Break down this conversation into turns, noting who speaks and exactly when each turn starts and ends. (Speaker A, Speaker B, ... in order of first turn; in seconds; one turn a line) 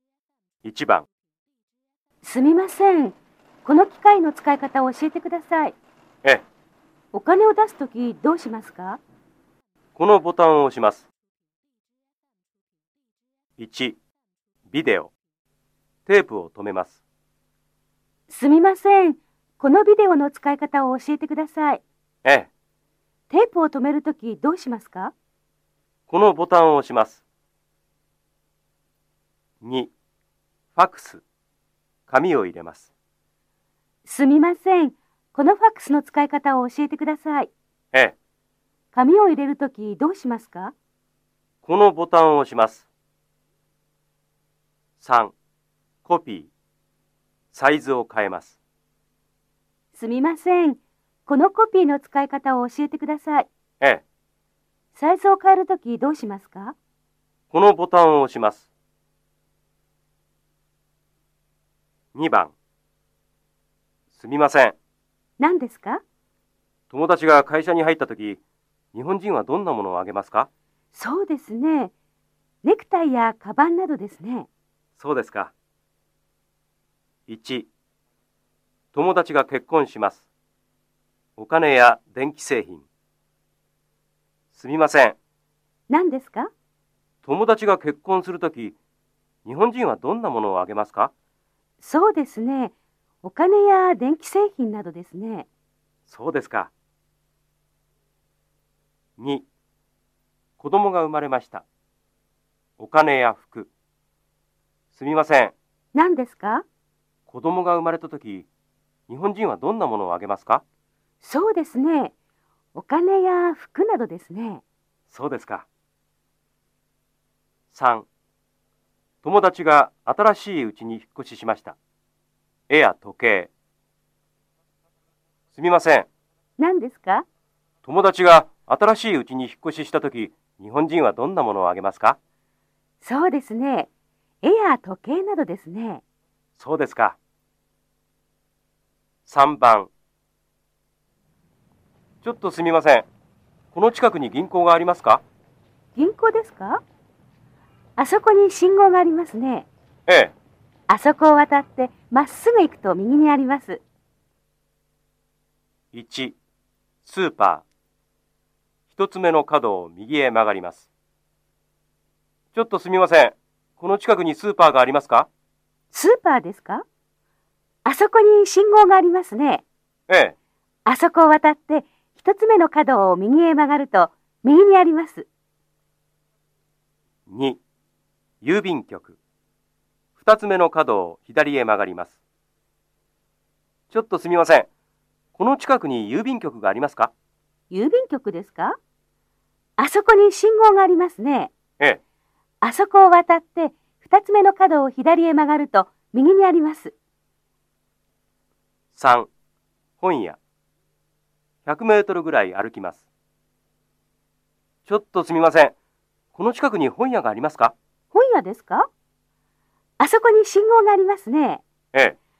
Speaker A: 0.6-1.1
Speaker B: 2.2-5.8
Speaker B: 7.1-9.0
Speaker A: 9.9-11.1
Speaker A: 13.6-14.0
Speaker A: 14.7-15.1
Speaker A: 16.1-17.0
Speaker B: 18.3-21.8
Speaker A: 22.2-22.5
Speaker B: 23.3-25.1
Speaker A: 26.1-27.2
Speaker A: 29.6-29.9
Speaker A: 30.7-31.2
Speaker A: 32.1-32.9
Speaker B: 34.0-37.5
Speaker B: 38.9-40.7
Speaker A: 41.6-42.9
Speaker A: 45.0-45.3
Speaker A: 46.0-46.5
Speaker A: 47.5-48.6
Speaker B: 49.9-53.5
Speaker B: 54.9-56.8
Speaker A: 57.5-58.7
Speaker A: 62.1-62.5
Speaker A: 64.1-64.8
Speaker B: 65.4-66.0
Speaker A: 66.9-68.4
Speaker A: 68.9-70.5
Speaker B: 70.9-71.9
Speaker B: 72.6-74.5
Speaker A: 75.0-75.5
Speaker A: 77.3-77.7
Speaker A: 78.9-80.2
Speaker A: 81.4-82.8
Speaker A: 84.5-85.2
Speaker B: 85.9-86.5
Speaker A: 87.2-88.8
Speaker A: 89.4-91.1
Speaker B: 91.8-95.5
Speaker A: 96.0-96.7
Speaker A: 99.2-99.5
Speaker A: 100.6-101.6
Speaker A: 102.8-103.7
Speaker A: 104.9-105.5
Speaker B: 105.9-106.7
Speaker A: 107.3-108.5
Speaker A: 109.1-110.6
Speaker B: 111.2-112.1
Speaker B: 112.7-114.6
Speaker A: 115.1-115.7
Speaker A: 117.7-118.1
Speaker A: 119.2-121.8
Speaker A: 122.7-123.5
Speaker A: 125.5-126.1
Speaker B: 126.6-127.2
Speaker A: 127.8-132.2
Speaker B: 133.0-133.9
Speaker B: 134.4-136.0
Speaker A: 136.6-137.2
Speaker A: 139.2-139.9
Speaker A: 142.2-143.1
Speaker A: 143.7-145.2
Speaker B: 145.9-146.8
Speaker B: 148.0-149.7
Speaker A: 150.1-150.3
Speaker B: 150.9-153.8
Speaker A: 155.9-156.4
Speaker A: 157.0-157.6
Speaker A: 158.9-160.9
Speaker A: 162.5-165.3
Speaker B: 165.9-166.8
Speaker B: 167.8-169.6
Speaker A: 170.1-170.3
Speaker B: 170.8-175.3
Speaker A: 177.3-177.6
Speaker A: 178.4-179.2
Speaker A: 180.2-182.2
Speaker A: 183.9-184.7
Speaker A: 185.3-187.1
Speaker B: 187.7-188.8
Speaker B: 189.8-191.5
Speaker B: 192.6-196.9
Speaker A: 198.9-199.3
Speaker A: 200.0-200.4
Speaker A: 201.6-203.1
Speaker A: 204.8-205.7
Speaker A: 206.3-207.7
Speaker B: 208.1-208.9
Speaker B: 210.0-211.6